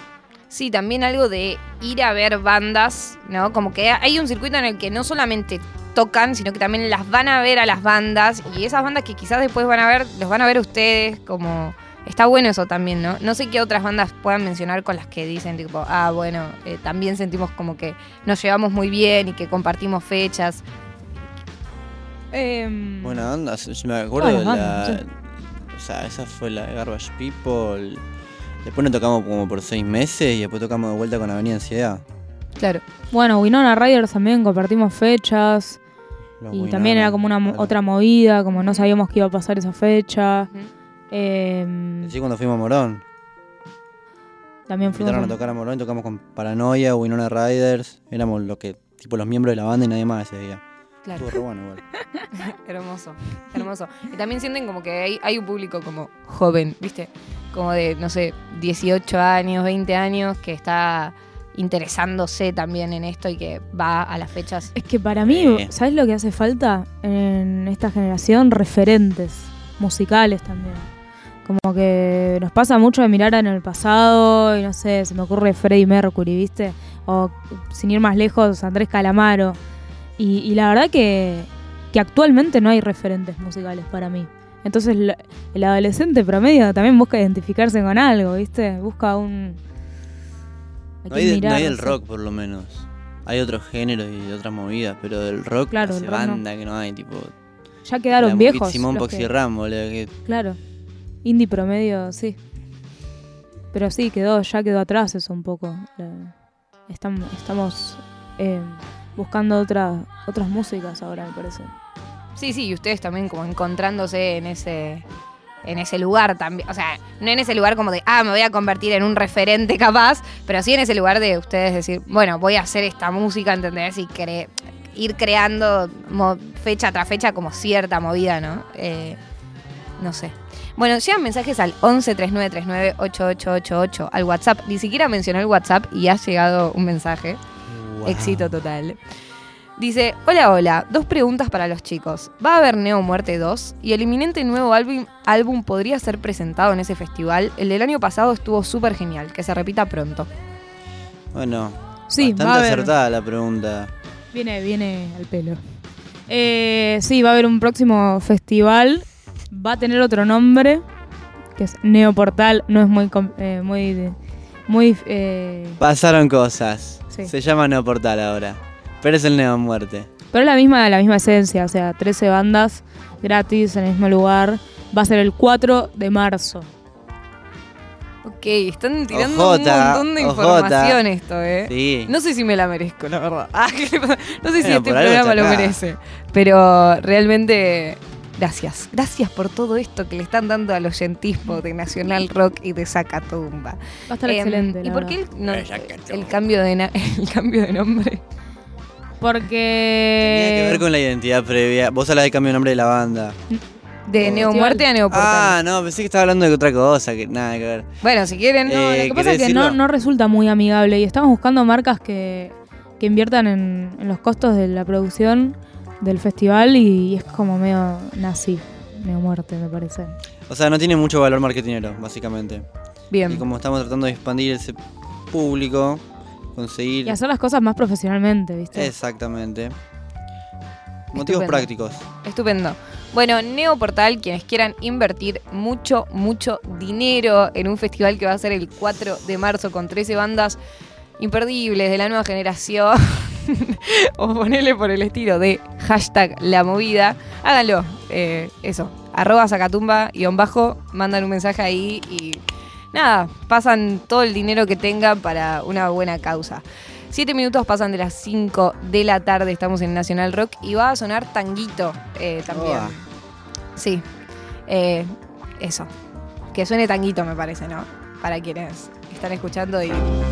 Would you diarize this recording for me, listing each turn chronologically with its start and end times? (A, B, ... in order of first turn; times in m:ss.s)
0:00.5-0:20.6 A
0:22.3-0:23.3 B
0:23.0-0:28.0 C
0:24.2-0:25.0 B
0:28.6-0:32.0 C
0:32.6-0:32.8 A
0:33.1-0:35.8 B
0:36.4-0:37.7 C
0:36.5-0:40.5 B
0:38.6-0:38.9 A
0:41.1-0:42.1 B
0:42.0-0:43.0 C
0:44.7-0:45.4 B
0:44.8-0:50.6 C
0:51.0-0:51.4 A
0:51.2-0:51.8 C
0:52.4-1:04.7 A
1:04.8-1:10.9 B
1:05.2-1:05.7 C
1:11.4-1:19.6 B
1:20.2-1:29.6 B
1:31.0-1:32.0 B
1:31.1-1:37.3 C
1:35.7-1:36.4 B
1:37.8-1:39.3 B
1:38.2-1:40.1 C
1:40.3-1:40.6 B
1:41.2-1:42.4 B
1:43.7-1:51.7 B
1:52.4-1:55.0 A
1:55.6-2:09.2 A
2:10.0-2:17.4 A
2:17.7-2:18.5 C
2:18.0-2:19.0 A
2:19.8-2:30.3 A
2:31.3-2:33.9 C
2:32.1-2:32.9 B
2:34.3-2:35.6 B
2:36.3-2:40.8 B
2:41.6-2:44.2 B
2:44.7-2:45.8 B
2:45.8-2:50.1 C
2:50.3-2:56.7 B
2:58.2-3:18.2 A
2:59.1-3:01.0 C
3:01.7-3:02.1 C
3:04.6-3:05.8 C
3:14.1-3:15.2 B
3:15.4-3:16.4 C
3:19.2-3:20.8 B
3:20.2-3:23.4 C
3:24.1-3:25.6 A
3:24.2-3:24.5 C
3:24.3-3:24.8 B
3:25.1-3:27.9 C
3:28.0-3:28.9 A
3:28.6-3:29.8 C
3:28.9-3:40.2 B
3:40.5-3:42.6 C
3:43.1-3:43.4 A
3:43.3-3:44.8 C
3:45.3-3:46.0 C
3:46.6-3:47.2 C
3:47.1-3:48.9 B
3:48.7-3:49.8 C
3:51.1-3:51.7 A
3:51.1-3:52.0 C
3:52.2-4:00.6 A
4:01.2-4:12.4 A
4:12.9-4:23.0 A
4:22.5-4:23.0 C
4:23.8-4:24.0 A
4:24.7-4:25.9 A
4:26.5-4:30.2 A